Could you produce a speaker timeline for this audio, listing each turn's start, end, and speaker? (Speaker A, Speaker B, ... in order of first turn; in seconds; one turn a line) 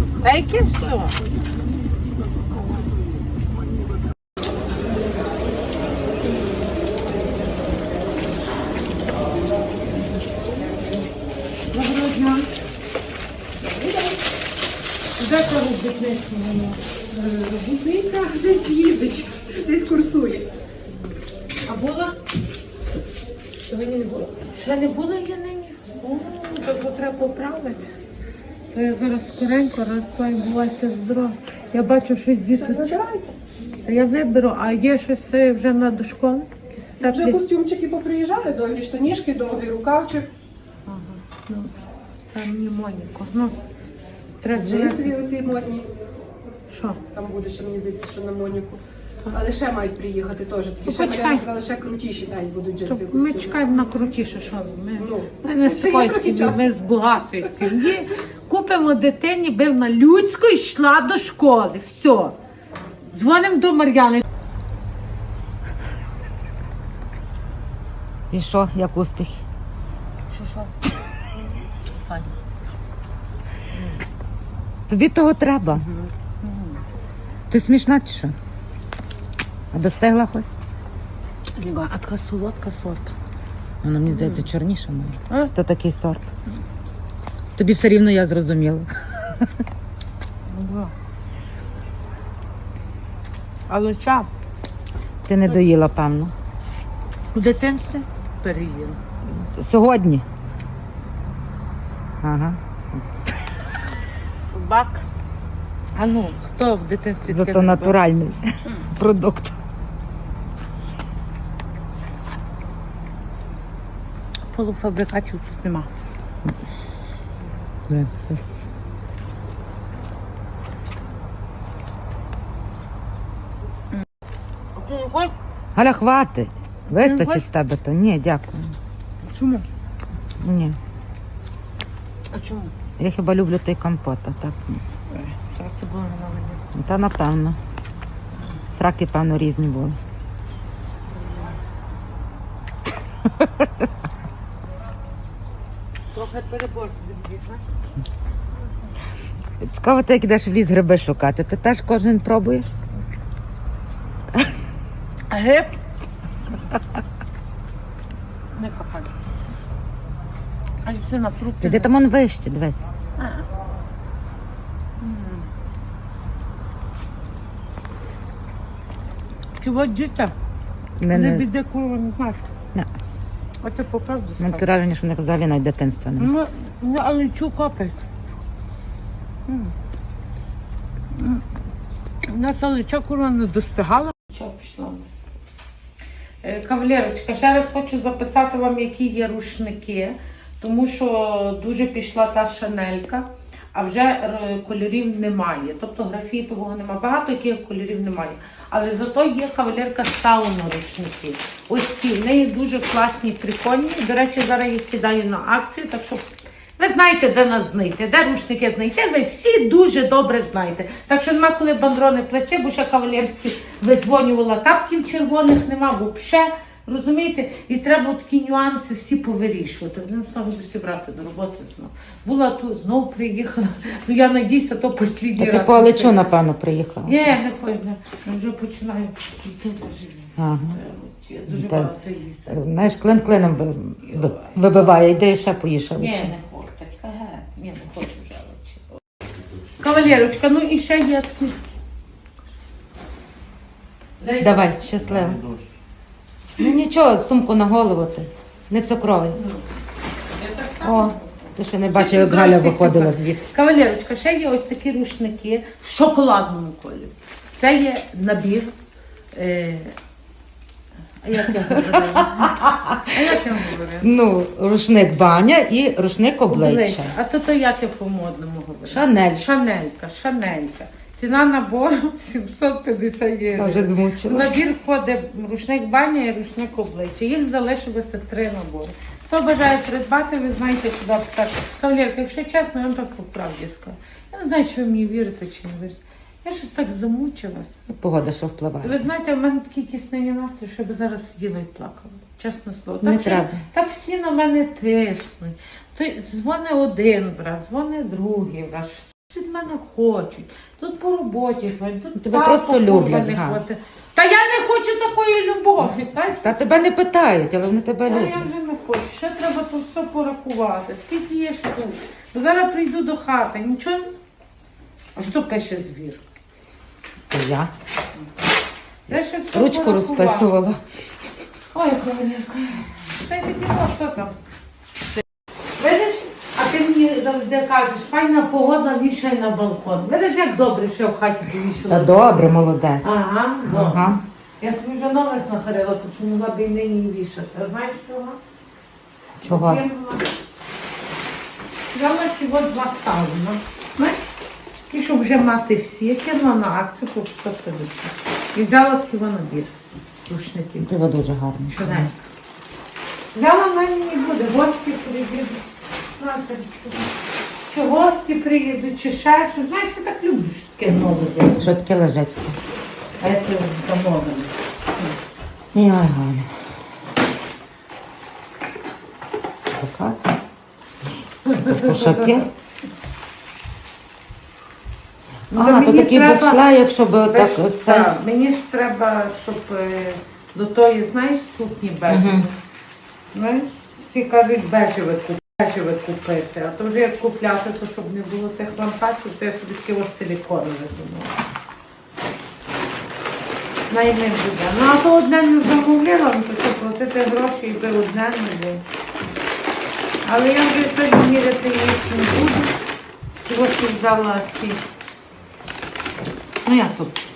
Speaker A: 0.2-1.2
Speaker A: 11.7-12.5
Speaker B: 13.6-14.2
Speaker A: 15.2-16.9
Speaker B: 17.1-20.5
Speaker A: 21.6-22.2
Speaker A: 23.7-27.9
Speaker A: 28.7-33.0
Speaker B: 32.5-33.3
Speaker A: 33.9-37.4
Speaker B: 37.0-40.3
Speaker A: 40.9-41.7
Speaker A: 42.3-43.5
Speaker A: 44.4-45.4
Speaker B: 44.6-45.9
Speaker A: 46.7-47.0
Speaker B: 47.1-53.8
Speaker A: 50.8-51.5
Speaker A: 52.8-62.4
Speaker B: 55.0-56.7
Speaker A: 63.1-64.2
Speaker C: 68.3-69.4
Speaker A: 70.3-70.7
Speaker C: 74.9-75.8
Speaker A: 75.7-76.8
Speaker C: 77.5-78.3
Speaker C: 79.7-80.5
Speaker A: 81.5-83.1
Speaker C: 83.8-86.3
Speaker A: 84.1-84.5
Speaker C: 87.5-89.4
Speaker A: 90.5-90.9
Speaker A: 93.7-94.3
Speaker C: 95.2-96.3
Speaker A: 97.3-99.0
Speaker C: 99.3-100.2
Speaker C: 102.2-102.6
Speaker A: 104.5-105.0
Speaker A: 105.9-108.0
Speaker C: 107.3-109.5
Speaker A: 114.5-115.9
Speaker C: 117.9-118.6
Speaker A: 124.8-125.3
Speaker C: 125.7-128.7
Speaker A: 126.9-127.5
Speaker A: 129.2-129.7
Speaker C: 130.4-130.8
Speaker A: 132.3-132.7
Speaker C: 133.0-134.8
Speaker A: 135.1-136.6
Speaker C: 136.7-137.6
Speaker C: 138.7-140.0
Speaker C: 143.4-143.7
Speaker A: 146.1-147.7
Speaker C: 149.6-152.7
Speaker A: 155.3-155.8
Speaker A: 158.5-159.2
Speaker A: 160.8-161.9
Speaker C: 161.6-162.8
Speaker A: 163.2-163.4
Speaker A: 165.0-165.5
Speaker A: 169.6-170.3
Speaker C: 171.0-171.4
Speaker A: 171.1-172.4
Speaker A: 173.6-174.7
Speaker C: 174.4-176.3
Speaker A: 176.2-178.0
Speaker A: 179.5-179.7
Speaker A: 181.1-181.4
Speaker A: 182.2-185.0
Speaker A: 186.4-226.4
Speaker C: 225.4-227.4
Speaker A: 227.0-232.7
Speaker C: 230.4-230.8
Speaker C: 231.5-231.9
Speaker C: 232.5-236.3
Speaker A: 234.1-235.0
Speaker A: 235.9-238.8
Speaker A: 239.8-241.6
Speaker A: 244.2-244.8
Speaker C: 244.4-245.4
Speaker C: 246.6-249.4
Speaker A: 249.3-249.6
Speaker A: 250.3-258.7
Speaker C: 250.8-253.5
Speaker A: 259.3-259.9
Speaker A: 261.2-264.1
Speaker C: 262.2-263.1
Speaker C: 264.0-267.1
Speaker A: 266.5-287.8
Speaker C: 268.9-269.4
Speaker C: 273.5-274.6
Speaker C: 287.9-289.0
Speaker A: 288.8-306.6
Speaker C: 293.0-293.6
Speaker C: 302.2-303.6
Speaker C: 306.4-308.4
Speaker A: 308.1-314.1
Speaker A: 315.1-316.2
Speaker C: 317.3-317.7
Speaker A: 319.1-320.5
Speaker C: 319.5-320.8
Speaker A: 321.7-324.4
Speaker A: 325.8-332.5
Speaker C: 331.9-333.0
Speaker A: 333.0-338.4
Speaker C: 333.6-334.2
Speaker C: 339.4-339.8
Speaker A: 339.4-340.3
Speaker A: 341.9-344.2
Speaker A: 344.9-349.7
Speaker A: 350.3-350.9
Speaker C: 350.8-352.1
Speaker A: 351.7-352.2
Speaker A: 353.3-355.6
Speaker A: 356.2-357.1
Speaker A: 357.7-361.7
Speaker C: 361.6-362.6
Speaker A: 363.2-365.1
Speaker C: 365.7-366.5
Speaker C: 369.7-370.3
Speaker A: 371.4-372.4
Speaker C: 371.6-372.5
Speaker C: 375.5-378.1
Speaker A: 375.5-376.6
Speaker A: 377.3-382.6
Speaker C: 382.1-382.4
Speaker A: 383.3-391.3
Speaker A: 393.9-398.8
Speaker A: 400.2-402.7
Speaker A: 403.4-404.9
Speaker A: 406.6-407.1